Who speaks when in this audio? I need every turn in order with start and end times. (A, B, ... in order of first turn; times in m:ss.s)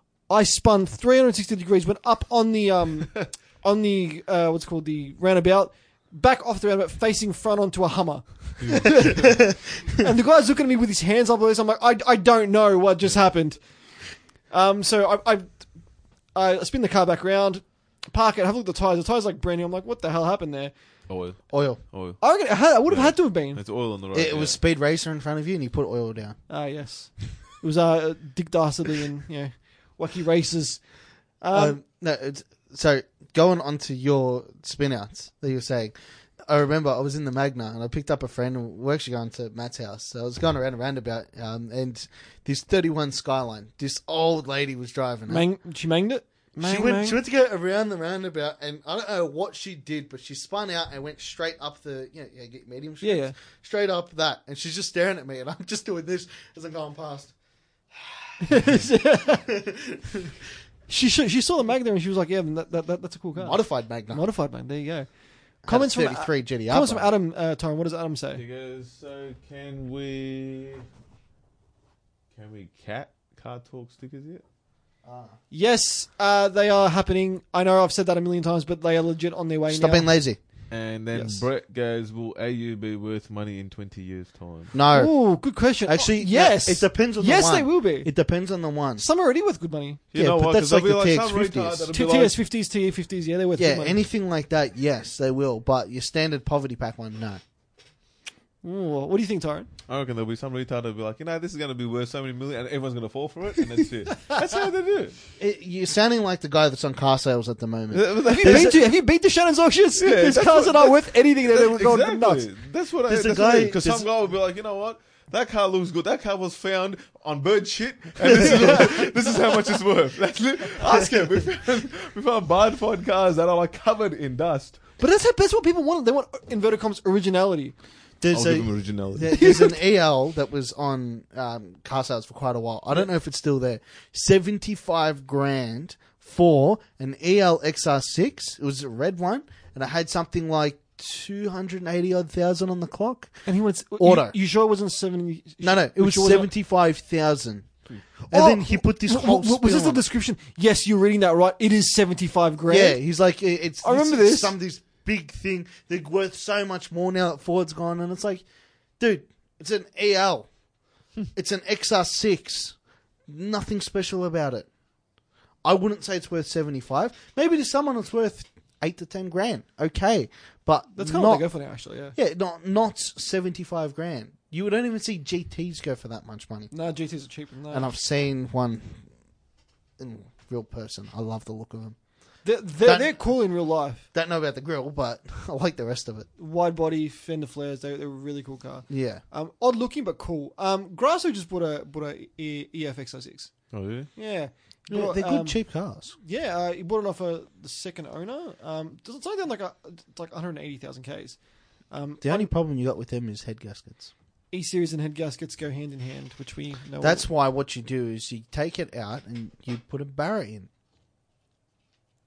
0:00.2-0:09.4 A
0:08.6-0:09.4 B
0:09.9-0:15.8 A
0:16.3-0:20.7 A
0:21.1-0:24.6 B
0:21.5-0:21.8 C
0:22.2-0:23.6 A
0:24.1-0:26.4 C
0:26.5-0:31.8 A
0:31.5-0:45.4 C
0:45.3-0:47.2 A
0:46.6-0:57.3 C
0:53.0-0:53.4 A
0:57.9-1:00.4 C
0:58.4-0:59.4 A
1:00.9-1:05.1 A
1:03.4-1:04.2 C
1:05.6-1:08.4 A
1:05.6-1:07.1 C
1:08.3-1:10.8 B
1:12.3-1:14.4 B
1:15.0-1:15.3 C
1:15.5-1:20.1 A
1:19.7-1:20.4 C
1:20.7-1:24.7 B
1:21.1-1:21.4 A
1:24.7-1:25.2 C
1:24.9-1:28.1 A
1:25.8-1:29.0 C
1:29.0-1:30.0 A
1:30.1-1:32.4 B
1:30.1-1:31.9 C
1:31.9-1:34.0 A
1:33.6-1:37.4 C
1:38.6-1:39.7 A
1:39.9-1:45.2 B
1:45.4-1:48.8 C
1:47.9-1:48.9 B
1:48.3-1:52.4 A
1:50.0-2:04.8 B
1:53.1-1:54.1 C
1:58.2-1:59.0 C
1:58.4-1:58.8 A
2:00.8-2:01.2 C
2:05.0-2:07.7 A
2:08.2-2:23.4 C
2:08.3-2:09.3 B
2:09.3-2:09.8 A
2:23.4-2:26.5 A
2:24.0-2:24.3 C
2:25.6-2:27.7 C
2:28.3-2:33.0 A
2:28.3-2:30.0 C
2:32.7-2:38.4 C
2:33.8-2:34.5 A
2:39.0-2:40.5 C
2:41.3-2:44.7 C
2:45.6-2:51.5 C
2:51.0-2:52.2 A
2:52.1-2:56.7 C
2:56.7-2:57.9 A
2:57.7-2:59.0 C
3:00.0-3:02.0 C
3:02.4-3:04.0 A
3:02.8-3:03.2 C
3:04.1-3:06.3 C
3:06.4-3:15.6 A
3:08.9-3:09.2 C
3:13.7-3:14.1 B
3:14.9-3:16.1 C
3:16.2-3:22.5 A
3:22.2-3:24.1 C
3:24.5-3:27.2 A
3:27.0-3:30.7 C